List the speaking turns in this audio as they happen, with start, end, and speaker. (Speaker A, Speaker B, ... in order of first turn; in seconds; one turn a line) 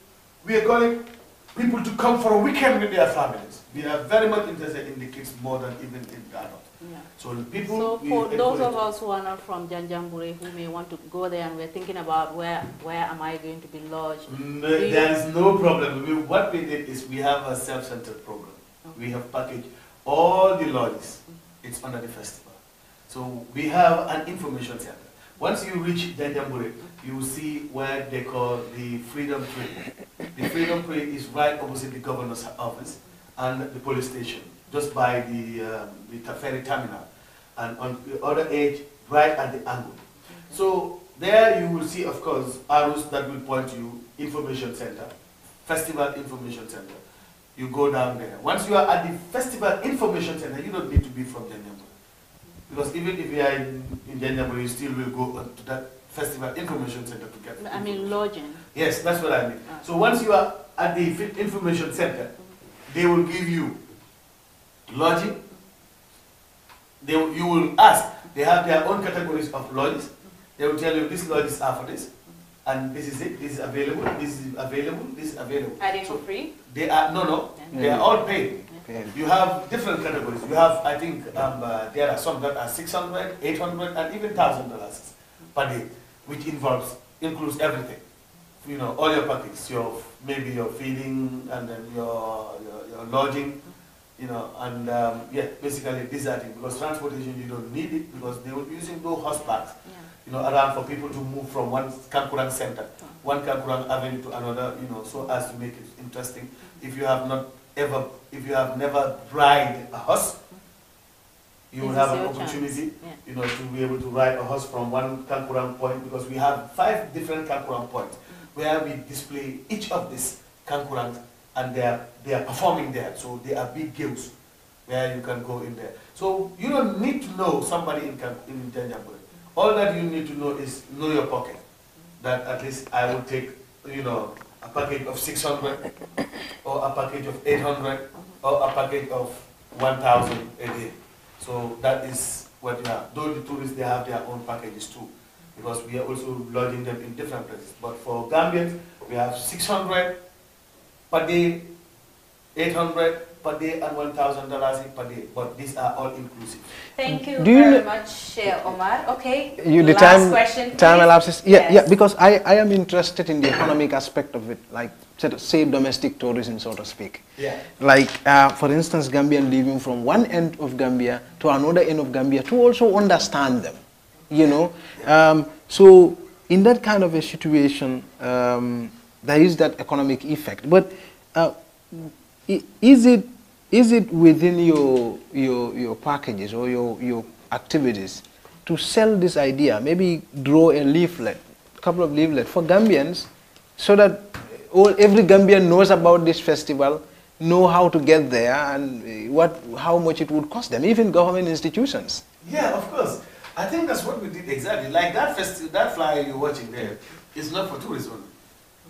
Speaker A: 0.4-8.8
Speaker B: 6.8-7.1
Speaker B: 7.6-15.2
Speaker A: 14.3-22.6
Speaker A: 23.1-45.1
Speaker A: 45.7-47.0
Speaker A: 47.6-51.9
Speaker A: 52.7-58.1
Speaker B: 57.6-58.7
Speaker A: 58.7-62.4
Speaker A: 62.9-63.8
Speaker A: 64.9-65.4
Speaker A: 67.0-72.1
Speaker A: 72.7-88.0
Speaker C: 75.8-76.5
Speaker B: 77.6-78.1
Speaker D: 77.7-79.2
Speaker A: 88.6-93.6
Speaker A: 94.2-110.4
Speaker A: 111.7-124.3
Speaker B: 111.8-113.2
Speaker A: 124.9-131.6
Speaker A: 132.2-135.9
Speaker A: 136.6-150.2
Speaker A: 151.1-151.7
Speaker A: 152.6-156.6
Speaker C: 156.9-161.8
Speaker D: 157.1-157.8
Speaker D: 159.6-167.3
Speaker A: 167.4-167.7
Speaker D: 167.8-202.2
Speaker A: 202.4-208.3